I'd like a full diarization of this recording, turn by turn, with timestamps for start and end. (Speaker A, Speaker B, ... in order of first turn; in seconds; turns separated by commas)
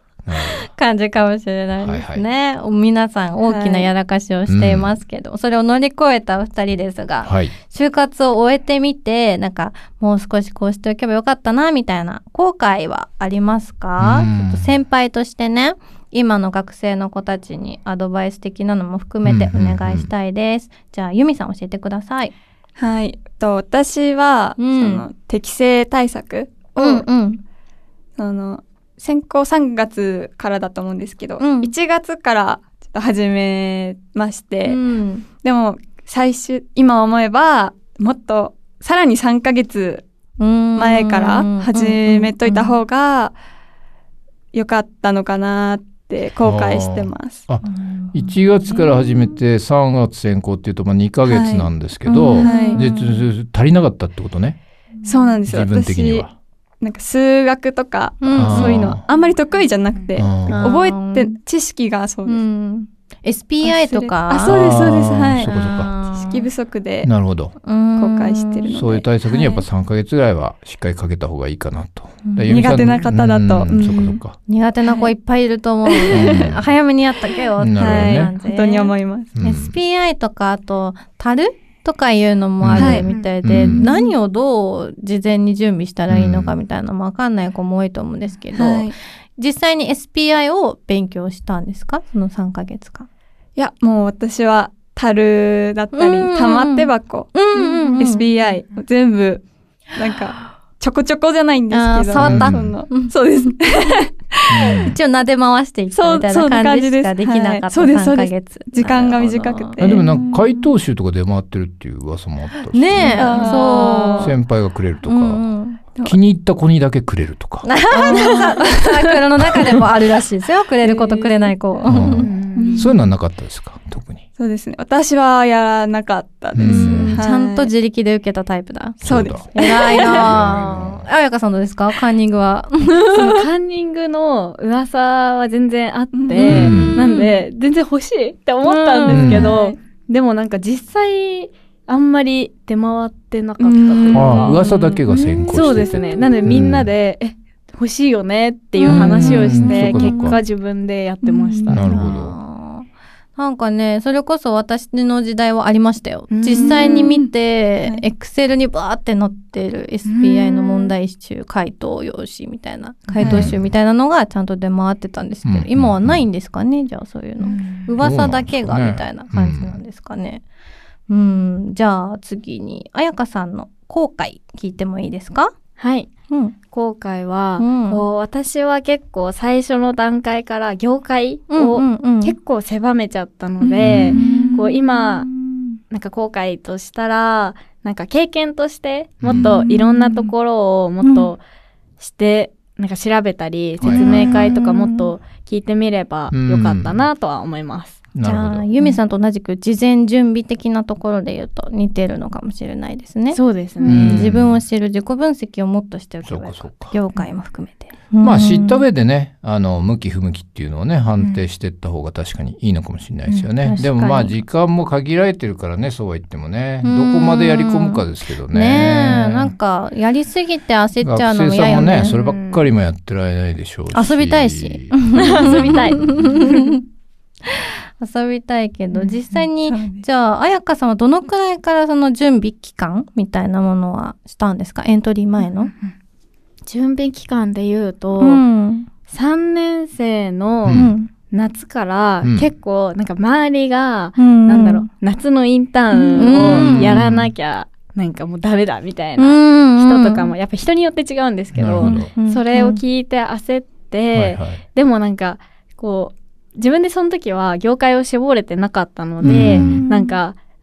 Speaker A: 0.2-0.7, Speaker B: 0.7-22.3, Speaker A: 1.8-2.2, Speaker C: 3.4-3.9, Speaker A: 4.5-5.0, Speaker A: 7.2-7.5, Speaker A: 14.0-14.7, Speaker A: 19.2-20.1, Speaker C: 22.8-27.1, Speaker B: 24.6-25.0, Speaker B: 26.8-27.4, Speaker C: 28.2-34.8, Speaker B: 31.4-31.7, Speaker B: 34.6-35.2, Speaker C: 35.4-40.0, Speaker B: 40.4-42.8, Speaker C: 40.8-43.3, Speaker C: 44.5-47.4, Speaker A: 46.4-54.6, Speaker B: 47.6-49.4, Speaker C: 51.2-51.7, Speaker B: 52.0-53.3, Speaker C: 52.4-52.8, Speaker B: 55.0-55.4, Speaker C: 55.0-56.3, Speaker A: 55.5-56.3, Speaker C: 56.8-62.4, Speaker B: 58.2-59.0, Speaker A: 58.3-59.0, Speaker A: 60.1-60.6, Speaker B: 60.5-61.4, Speaker B: 62.2-64.6, Speaker C: 63.6-65.5, Speaker A: 64.4-66.0, Speaker B: 65.4-66.5, Speaker C: 66.1-67.1, Speaker A: 67.0-67.5, Speaker B: 67.6-69.7, Speaker C: 68.0-69.0, Speaker A: 68.7-74.4, Speaker B: 72.3-72.6, Speaker C: 72.5-74.2, Speaker B: 74.5-93.1, Speaker C: 74.8-75.1, Speaker C: 75.8-76.5, Speaker A: 76.1-76.7, Speaker A: 77.6-78.3, Speaker C: 77.8-79.3, Speaker A: 79.3-79.7, Speaker A: 82.6-83.9, Speaker C: 82.7-84.1, Speaker A: 86.1-86.6, Speaker C: 88.5-88.9, Speaker C: 93.5-104.7, Speaker B: 95.9-98.2, Speaker B: 101.7-103.5, Speaker A: 102.2-102.8, Speaker A: 104.5-105.0, Speaker B: 104.8-110.7, Speaker C: 105.9-110.0, Speaker A: 109.8-115.5, Speaker B: 112.7-114.4, Speaker C: 113.1-114.3, Speaker B: 115.0-115.8, Speaker A: 116.0-117.7, Speaker B: 117.6-122.3, Speaker C: 118.0-118.8, Speaker A: 119.4-119.9, Speaker D: 120.8-121.5, Speaker A: 121.8-124.2, Speaker D: 122.1-122.9, Speaker C: 122.5-123.0, Speaker C: 124.4-127.7, Speaker A: 126.5-127.2, Speaker B: 126.6-133.4, Speaker A: 129.0-131.1, Speaker C: 129.0-130.4, Speaker D: 133.1-151.8, Speaker C: 136.1-137.3, Speaker A: 136.4-137.0, Speaker B: 138.6-139.5, Speaker A: 139.1-139.5, Speaker C: 143.6-144.9, Speaker A: 144.1-146.9, Speaker C: 148.8-149.4, Speaker B: 148.8-150.4, Speaker A: 148.9-150.4, Speaker B: 151.5-170.4, Speaker A: 151.7-152.4, Speaker D: 156.3-157.2, Speaker C: 156.5-157.2, Speaker D: 160.1-160.9, Speaker C: 163.2-163.5, Speaker A: 163.2-163.7, Speaker A: 165.4-166.3, Speaker D: 167.4-167.9, Speaker A: 168.0-169.8, Speaker B: 171.1-175.5, Speaker D: 175.8-176.1, Speaker B: 176.3-176.5, Speaker D: 176.7-185.3, Speaker B: 177.6-178.0, Speaker B: 181.5-182.3, Speaker B: 183.6-185.8, Speaker A: 183.8-184.2, Speaker D: 185.9-191.4, Speaker A: 189.2-189.5, Speaker B: 189.3-190.3, Speaker B: 191.0-191.3, Speaker D: 192.0-198.0, Speaker A: 193.8-194.6, Speaker B: 193.8-195.1, Speaker A: 196.3-197.1, Speaker A: 198.1-198.7, Speaker B: 198.2-208.8, Speaker D: 203.3-204.3, Speaker A: 203.8-204.6, Speaker A: 206.2-207.0, Speaker A: 208.2-219.5, Speaker B: 213.3-214.3, Speaker B: 216.8-222.2, Speaker A: 221.0-226.5, Speaker D: 221.9-222.7, Speaker B: 223.9-226.8, Speaker D: 225.1-226.2, Speaker B: 227.5-235.7, Speaker C: 229.6-230.0, Speaker D: 235.4-235.9, Speaker D: 236.7-238.4, Speaker B: 238.2-238.9, Speaker D: 239.1-260.4, Speaker A: 240.6-240.9, Speaker B: 240.7-241.1, Speaker A: 242.2-242.5, Speaker B: 244.2-244.9, Speaker B: 245.9-246.9, Speaker A: 246.2-247.3, Speaker B: 249.2-250.3, Speaker A: 251.5-252.1, Speaker B: 251.8-252.8, Speaker A: 254.1-254.6, Speaker A: 259.2-259.8, Speaker B: 259.3-260.2